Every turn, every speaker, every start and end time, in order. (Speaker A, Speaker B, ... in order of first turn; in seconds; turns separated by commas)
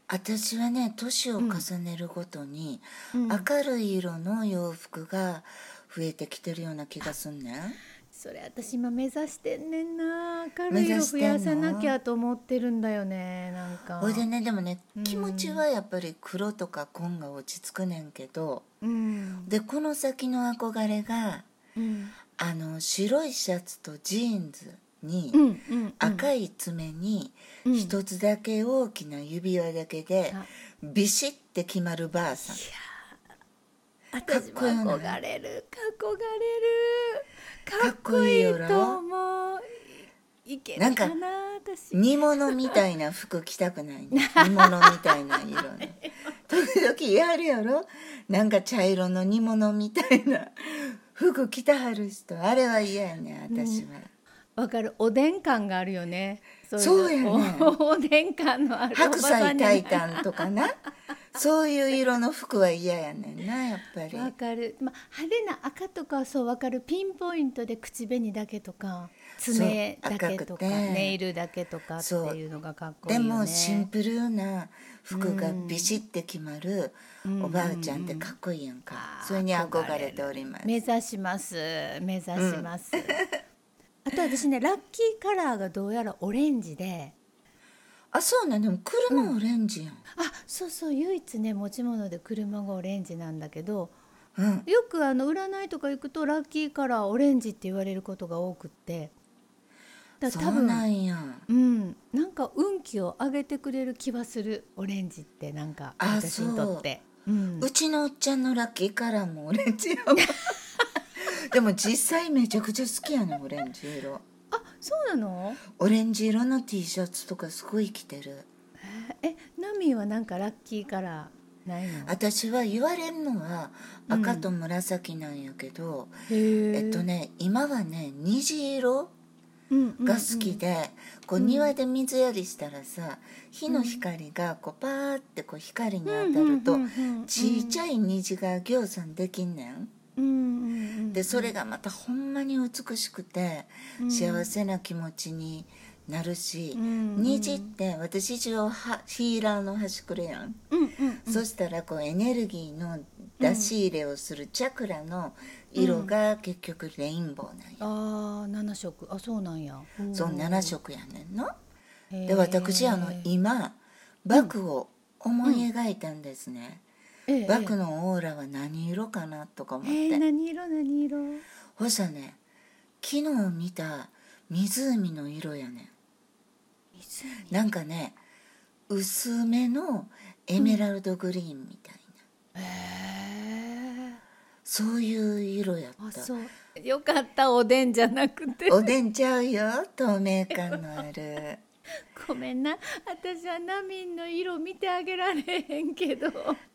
Speaker A: 0.1-7.8, Speaker B: 1.4-1.6, Speaker B: 3.1-3.5, Speaker B: 8.1-14.3, Speaker A: 10.7-11.9, Speaker A: 14.0-18.7, Speaker B: 15.0-15.6, Speaker B: 18.8-19.5, Speaker A: 19.5-21.5, Speaker B: 21.8-22.1, Speaker A: 22.4-25.5, Speaker B: 25.3-26.3, Speaker A: 26.0-32.6, Speaker B: 27.6-28.0, Speaker B: 32.5-32.9, Speaker B: 34.1-42.8, Speaker A: 34.2-35.2, Speaker A: 37.8-39.0, Speaker A: 40.8-41.1, Speaker A: 41.9-54.1, Speaker B: 44.1-46.1, Speaker B: 53.5-53.9, Speaker B: 54.6-60.5, Speaker A: 56.8-57.8, Speaker A: 58.9-60.8, Speaker A: 61.3-64.3, Speaker B: 64.1-73.9, Speaker A: 69.5-71.2, Speaker A: 72.0-72.4, Speaker A: 73.1-80.7, Speaker B: 75.1-76.0, Speaker B: 77.2-78.4, Speaker B: 78.9-83.3, Speaker A: 82.4-83.3, Speaker B: 84.0-87.2, Speaker A: 88.1-90.0, Speaker B: 89.1-89.3, Speaker B: 90.1-93.9, Speaker A: 94.4-94.7, Speaker B: 94.7-99.1, Speaker B: 100.2-100.9, Speaker A: 100.2-101.5, Speaker B: 101.5-107.7, Speaker A: 106.0-106.9, Speaker A: 107.6-110.5, Speaker A: 111.2-114.2, Speaker B: 114.5-115.6, Speaker A: 115.8-118.5, Speaker B: 118.8-122.2, Speaker A: 122.0-126.2, Speaker B: 124.1-124.5, Speaker B: 126.3-127.1, Speaker A: 126.7-129.1, Speaker B: 129.7-130.6, Speaker A: 130.0-139.9, Speaker B: 131.4-131.8, Speaker B: 133.7-134.0, Speaker B: 136.1-137.8, Speaker B: 140.2-141.6, Speaker A: 141.1-150.6, Speaker B: 144.0-144.5, Speaker B: 146.7-147.7, Speaker B: 150.7-151.5, Speaker A: 151.3-157.9, Speaker B: 153.4-153.7, Speaker B: 155.8-156.2, Speaker B: 157.8-160.8, Speaker A: 160.1-161.6, Speaker B: 162.1-163.3, Speaker A: 162.3-166.8, Speaker B: 167.3-167.8, Speaker A: 167.5-170.2, Speaker B: 169.8-171.4, Speaker A: 171.8-172.4, Speaker A: 173.0-175.9, Speaker B: 176.9-177.6, Speaker A: 177.5-178.2, Speaker A: 178.9-182.2, Speaker B: 180.6-180.8, Speaker B: 182.6-184.2, Speaker A: 184.7-186.3, Speaker B: 186.0-188.9, Speaker A: 188.7-191.6, Speaker B: 190.5-191.0, Speaker B: 192.1-196.6